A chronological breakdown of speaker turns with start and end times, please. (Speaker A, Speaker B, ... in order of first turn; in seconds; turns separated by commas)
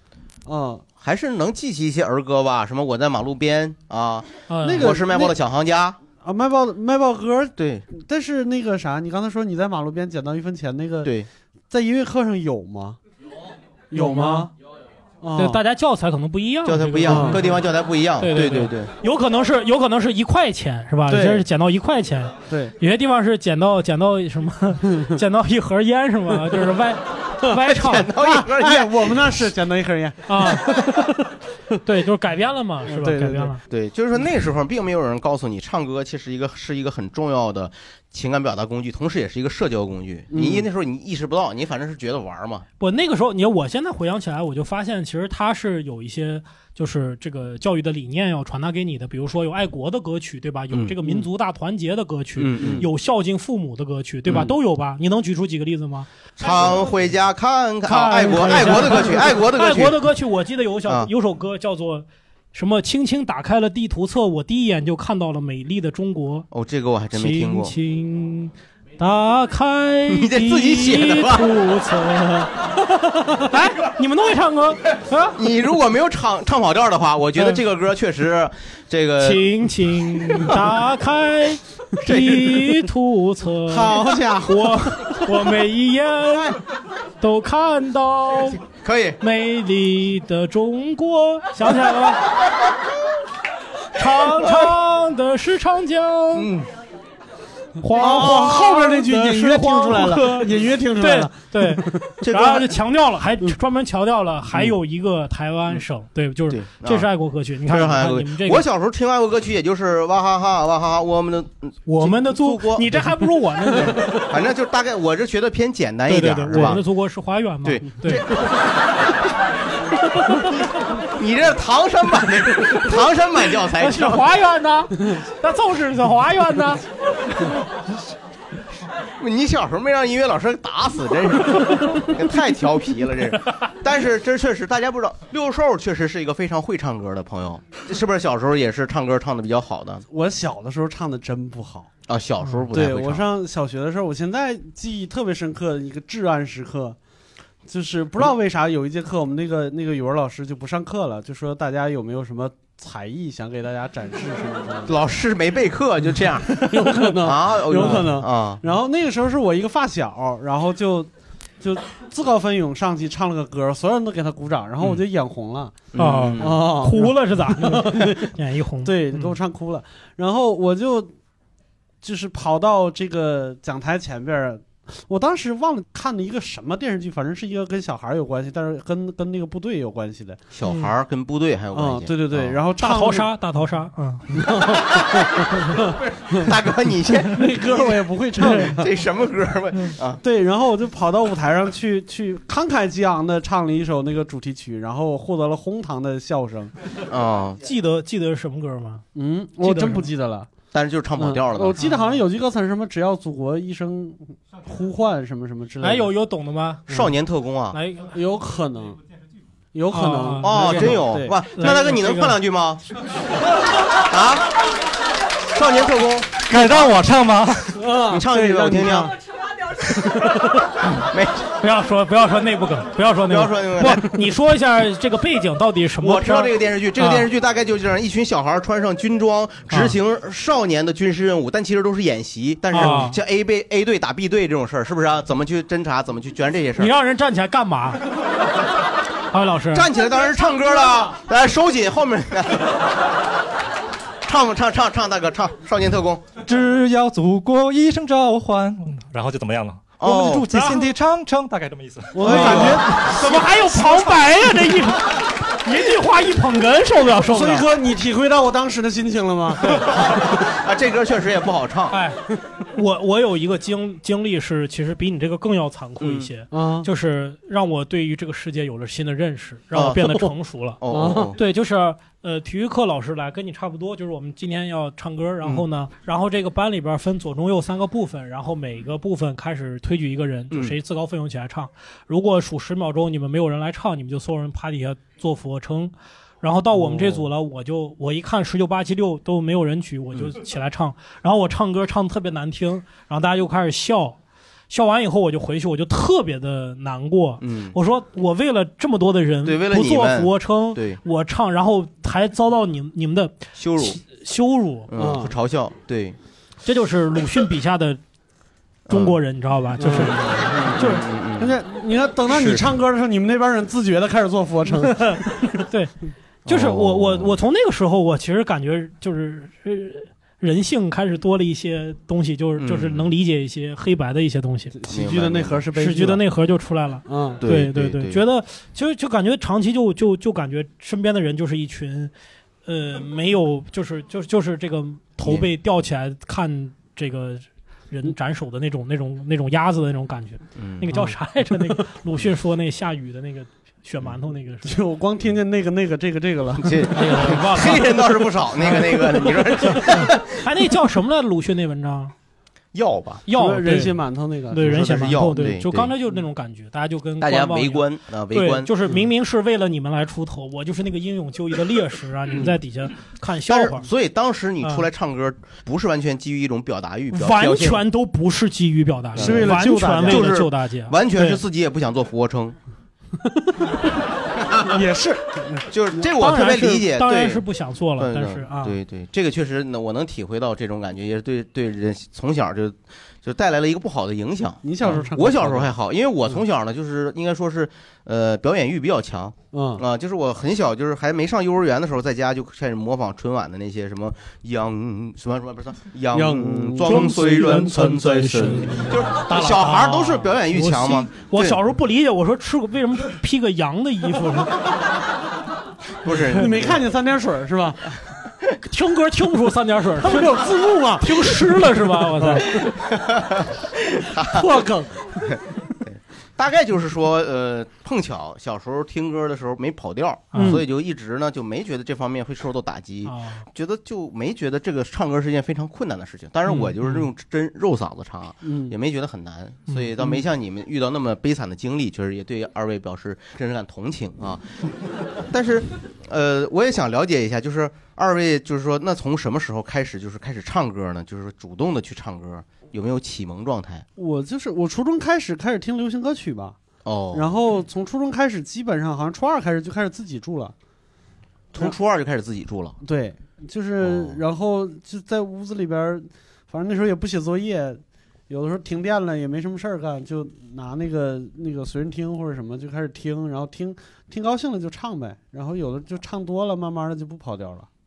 Speaker A: 0.5-0.8, Speaker B: 1.0-6.0, Speaker C: 4.5-5.0, Speaker A: 4.6-5.3, Speaker A: 6.2-11.1, Speaker B: 7.6-7.8, Speaker A: 11.7-13.0, Speaker A: 13.9-14.5, Speaker C: 13.9-14.5, Speaker A: 15.2-15.6, Speaker C: 15.4-17.6, Speaker B: 16.6-18.9, Speaker A: 17.1-17.5, Speaker C: 18.2-28.1, Speaker B: 21.1-21.4, Speaker A: 22.5-22.7, Speaker B: 27.6-29.3, Speaker A: 28.1-31.0, Speaker C: 30.3-31.2, Speaker C: 31.8-33.6, Speaker A: 32.8-33.5, Speaker B: 33.7-42.6, Speaker A: 40.3-40.6, Speaker C: 42.8-56.1, Speaker B: 50.7-51.2, Speaker B: 52.4-52.9, Speaker B: 56.4-60.0, Speaker C: 57.8-66.5, Speaker B: 66.5-67.7, Speaker C: 67.1-75.4, Speaker B: 70.1-71.5, Speaker B: 75.3-79.5, Speaker C: 79.2-86.6, Speaker B: 80.2-80.5, Speaker B: 82.0-82.7, Speaker A: 83.7-84.8, Speaker C: 87.2-88.6, Speaker B: 88.8-89.2, Speaker C: 89.2-92.2, Speaker C: 94.0-96.5, Speaker B: 96.3-96.7, Speaker C: 97.8-108.6, Speaker A: 97.9-102.2, Speaker B: 102.2-102.8, Speaker B: 106.5-107.1, Speaker B: 107.7-113.0, Speaker C: 111.9-114.3, Speaker B: 113.8-116.8, Speaker C: 116.1-118.2, Speaker B: 117.6-118.5, Speaker B: 121.1-124.2, Speaker C: 123.8-126.8, Speaker B: 129.2-140.1, Speaker A: 140.1-141.9, Speaker B: 142.1-143.3, Speaker A: 142.7-146.9, Speaker A: 147.7-154.9, Speaker B: 154.9-158.6, Speaker A: 156.6-165.8, Speaker B: 165.9-166.6, Speaker C: 165.9-169.3, Speaker A: 166.4-168.3, Speaker A: 168.8-171.1, Speaker A: 172.0-180.4, Speaker B: 180.5-182.6, Speaker A: 181.7-183.3, Speaker C: 182.8-184.5, Speaker A: 184.4-186.5, Speaker B: 186.2-190.2, Speaker A: 187.3-188.9, Speaker C: 188.4-188.7, Speaker A: 190.2-196.7, Speaker B: 197.1-197.6, Speaker C: 197.6-199.0, Speaker A: 199.1-200.5, Speaker C: 199.6-200.1, Speaker B: 200.7-201.8, Speaker A: 201.2-206.1, Speaker C: 201.8-202.2, Speaker C: 205.8-206.9, Speaker B: 206.9-207.8, Speaker C: 207.7-208.1, Speaker A: 208.1-209.0, Speaker A: 209.7-211.3, Speaker C: 209.9-211.0, Speaker B: 210.4-212.8, Speaker C: 211.5-212.3, Speaker B: 214.1-214.5, Speaker B: 215.5-216.4, Speaker D: 216.4-217.8, Speaker A: 217.8-219.1, Speaker B: 218.1-219.2, Speaker B: 220.9-221.5, Speaker C: 221.6-227.2, Speaker B: 223.3-224.1, Speaker B: 226.0-236.9, Speaker C: 229.7-229.9, Speaker C: 232.7-233.2, Speaker C: 236.8-238.0, Speaker C: 239.3-239.9, Speaker B: 239.7-242.9, Speaker B: 244.2-246.2, Speaker D: 246.4-252.6, Speaker B: 250.0-250.5, Speaker C: 250.5-250.8, Speaker A: 252.1-253.1, Speaker B: 252.2-252.8, Speaker C: 252.2-257.6, Speaker A: 257.3-259.8, Speaker B: 259.9-261.9, Speaker C: 261.9-262.2, Speaker C: 262.7-270.8, Speaker B: 266.0-266.3, Speaker A: 266.5-266.9, Speaker B: 269.7-270.2, Speaker B: 270.8-271.4, Speaker A: 270.9-271.3, Speaker C: 271.3-294.2, Speaker C: 294.7-304.9, Speaker B: 297.4-297.8, Speaker B: 299.4-301.0, Speaker B: 303.6-304.0, Speaker B: 304.9-306.2, Speaker A: 304.9-305.3, Speaker C: 306.6-308.0, Speaker B: 308.9-309.2, Speaker C: 308.9-311.0, Speaker A: 309.8-310.3, Speaker B: 310.4-311.6, Speaker A: 311.4-315.2, Speaker B: 312.3-312.6, Speaker C: 314.9-315.9, Speaker B: 316.4-317.3, Speaker C: 316.4-324.7, Speaker B: 322.6-323.1, Speaker A: 324.7-326.2, Speaker B: 324.9-325.6, Speaker C: 325.7-332.1, Speaker A: 327.1-327.4, Speaker B: 327.4-328.2, Speaker C: 332.6-344.8, Speaker B: 340.6-340.9, Speaker A: 344.6-346.9, Speaker B: 346.6-350.2, Speaker C: 346.9-347.9, Speaker C: 348.7-352.1, Speaker B: 352.7-353.2, Speaker C: 353.3-354.0, Speaker A: 353.3-355.4, Speaker C: 354.5-363.9, Speaker B: 354.7-355.9, Speaker B: 357.2-358.7, Speaker B: 363.5-367.8, Speaker C: 367.1-371.4, Speaker B: 369.1-372.6, Speaker A: 369.2-370.3, Speaker A: 374.7-376.0, Speaker B: 375.7-377.4, Speaker C: 376.2-378.8, Speaker B: 378.0-401.6, Speaker A: 384.6-385.7, Speaker A: 389.5-389.8, Speaker A: 396.1-398.6, Speaker C: 396.9-404.5, Speaker B: 406.0-406.8, Speaker A: 406.3-407.8, Speaker C: 408.6-410.4, Speaker A: 410.0-411.4, Speaker C: 411.0-412.6, Speaker A: 412.2-412.5, Speaker B: 412.9-414.5, Speaker A: 414.2-415.0, Speaker B: 416.4-434.6, Speaker C: 420.3-420.6, Speaker A: 420.4-420.6, Speaker C: 423.0-423.4, Speaker C: 426.5-427.0, Speaker A: 428.4-428.7, Speaker B: 435.3-443.8, Speaker A: 444.0-446.6, Speaker B: 446.8-447.3, Speaker A: 447.1-450.5, Speaker B: 451.5-452.8, Speaker A: 452.8-467.7, Speaker B: 453.8-454.2